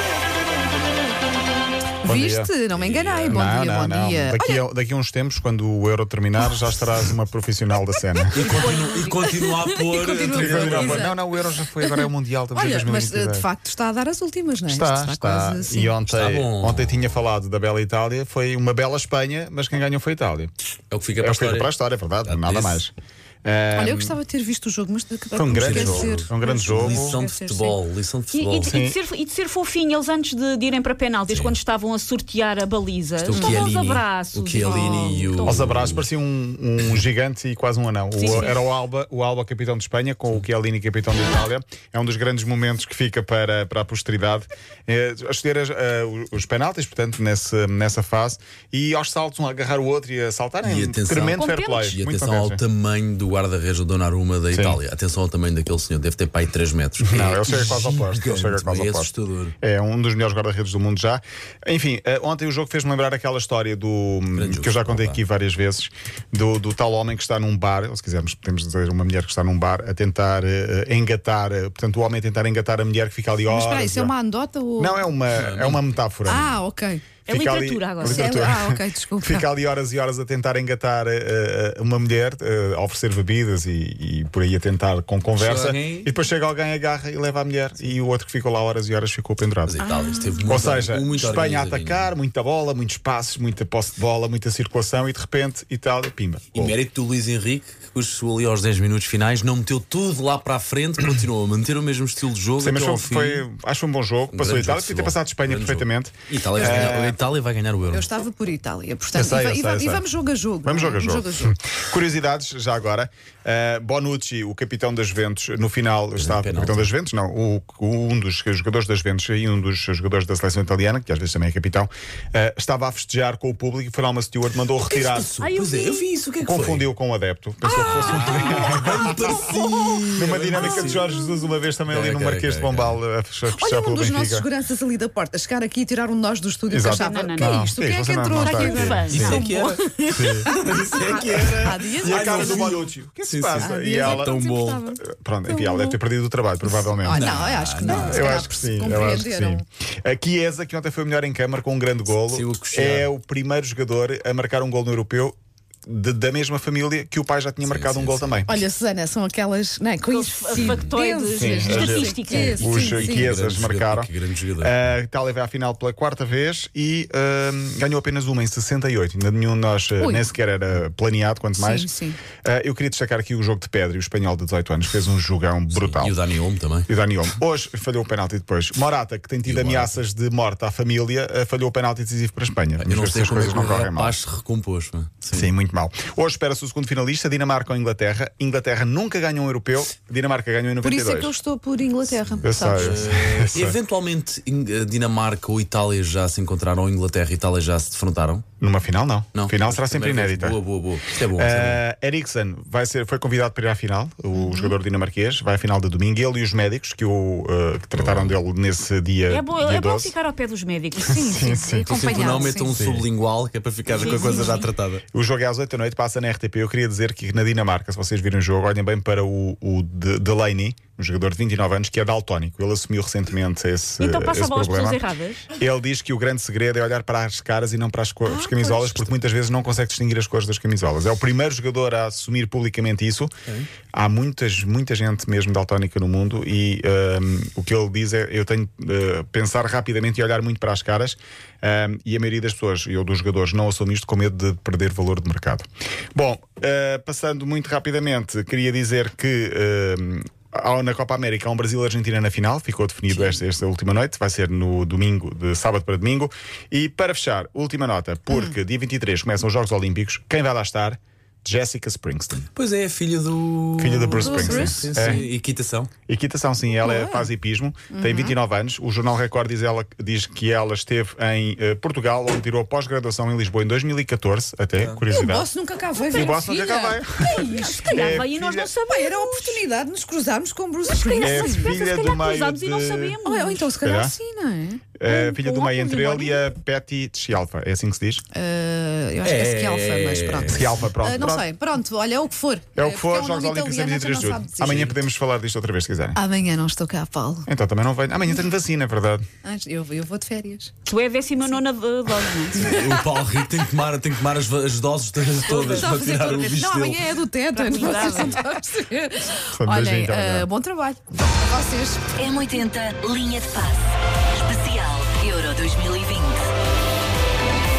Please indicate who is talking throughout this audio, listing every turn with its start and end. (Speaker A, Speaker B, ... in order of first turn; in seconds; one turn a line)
Speaker A: 2.0-4.6
Speaker B: 2.0-2.5
Speaker C: 2.7-3.5
Speaker B: 3.2-8.6
Speaker A: 8.3-8.7
Speaker C: 8.3-11.1
Speaker D: 8.4-9.8
Speaker A: 9.8-15.9
Speaker B: 10.3-13.5
Speaker B: 14.7-20.5
Speaker C: 16.1-17.2
Speaker C: 20.9-21.7
Speaker B: 21.1-22.9
Speaker C: 22.2-22.8
Speaker B: 23.4-24.1
Speaker A: 23.7-27.8
Speaker B: 25.3-27.2
Speaker C: 25.4-28.8
Speaker D: 28.3-35.6
Speaker B: 28.7-29.0
Speaker C: 31.3-31.6
Speaker C: 33.2-36.1
Speaker A: 33.3-33.6
Speaker A: 34.6-35.2
Speaker B: 35.4-52.6
Speaker C: 36.8-37.0
Speaker D: 38.1-38.7
Speaker C: 50.6-59.5
Speaker D: 51.3-51.9
Speaker B: 54.5-54.8
Speaker B: 57.0-74.1
Speaker C: 64.3-65.2
Speaker A: 73.5-75.1
Speaker B: 74.8-76.6
Speaker C: 75.3-76.0
Speaker A: 76.2-77.1
Speaker D: 77.2-78.3
Speaker B: 77.3-89.8
Speaker A: 78.0-79.5
Speaker C: 85.3-86.1
Speaker C: 89.6-92.1
Speaker A: 89.8-90.5
Speaker B: 90.5-96.8
Speaker C: 96.5-103.4
Speaker B: 102.6-107.2
Speaker C: 104.3-108.1
Speaker A: 106.6-106.9
Speaker A: 107.9-111.5
Speaker B: 109.1-110.0
Speaker B: 110.6-125.3
Speaker C: 116.1-116.9
Speaker C: 124.8-126.9
Speaker D: 125.4-126.1
Speaker B: 126.4-129.5
Speaker C: 127.7-131.0
Speaker A: 128.3-128.7
Speaker B: 130.1-134.5
Speaker C: 131.9-133.0
Speaker A: 133.5-139.1
Speaker B: 136.7-139.4
Speaker D: 136.8-137.7
Speaker D: 138.3-140.3
Speaker C: 139.1-144.9
Speaker B: 140.1-144.3
Speaker A: 141.5-142.8
Speaker A: 143.6-146.0
Speaker B: 145.0-158.6
Speaker A: 146.7-149.6
Speaker C: 147.1-148.4
Speaker C: 152.2-153.1
Speaker C: 157.6-158.5
Speaker A: 158.4-163.3
Speaker D: 160.0-162.8
Speaker C: 160.6-160.9
Speaker B: 161.3-176.2
Speaker C: 162.6-164.9
Speaker A: 170.0-170.2
Speaker A: 171.6-172.2
Speaker C: 175.7-176.9
Speaker B: 176.9-184.2
Speaker C: 179.4-180.0
Speaker C: 182.8-185.5
Speaker B: 185.3-191.3
Speaker A: 190.8-193.1
Speaker B: 192.4-193.8
Speaker C: 192.6-198.4
Speaker B: 198.6-200.6
Speaker C: 199.3-201.8
Speaker B: 201.3-210.1
Speaker A: 204.3-204.7
Speaker C: 207.9-208.4
Speaker D: 209.3-211.3
Speaker A: 211.0-212.8
Speaker B: 211.1-213.1
Speaker C: 211.9-215.0
Speaker D: 213.9-214.6
Speaker A: 214.0-214.7
Speaker B: 215.1-233.3
Speaker D: 224.0-225.5
Speaker A: 228.2-229.1
Speaker B: 233.9-262.4
Speaker C: 253.1-253.4
Speaker C: 262.4-265.9
Speaker B: 263.8-265.2
Speaker A: 264.1-265.2
Speaker B: 266.1-275.5
Speaker A: 266.8-267.3
Speaker A: 267.9-268.4
Speaker C: 274.7-275.0
Speaker A: 275.1-278.2
Speaker D: 275.9-276.4
Speaker B: 276.1-278.7
Speaker D: 277.3-279.6
Speaker A: 278.9-281.7
Speaker D: 280.8-283.7
Speaker B: 281.2-283.2
Speaker A: 283.2-284.9
Speaker B: 283.8-284.1
Speaker B: 284.9-288.2
Speaker D: 285.0-286.4
Speaker A: 288.3-294.9
Speaker C: 289.2-290.9
Speaker B: 290.4-291.4
Speaker B: 292.7-296.2
Speaker C: 294.7-294.9
Speaker A: 296.1-297.5
Speaker B: 297.5-299.2
Speaker A: 299.4-300.7
Speaker D: 300.8-302.7
Speaker A: 302.3-303.4
Speaker C: 302.5-307.1
Speaker D: 305.4-306.6
Speaker A: 305.5-312.0
Speaker D: 307.5-308.4
Speaker B: 309.5-310.5
Speaker E: 312.1-316.5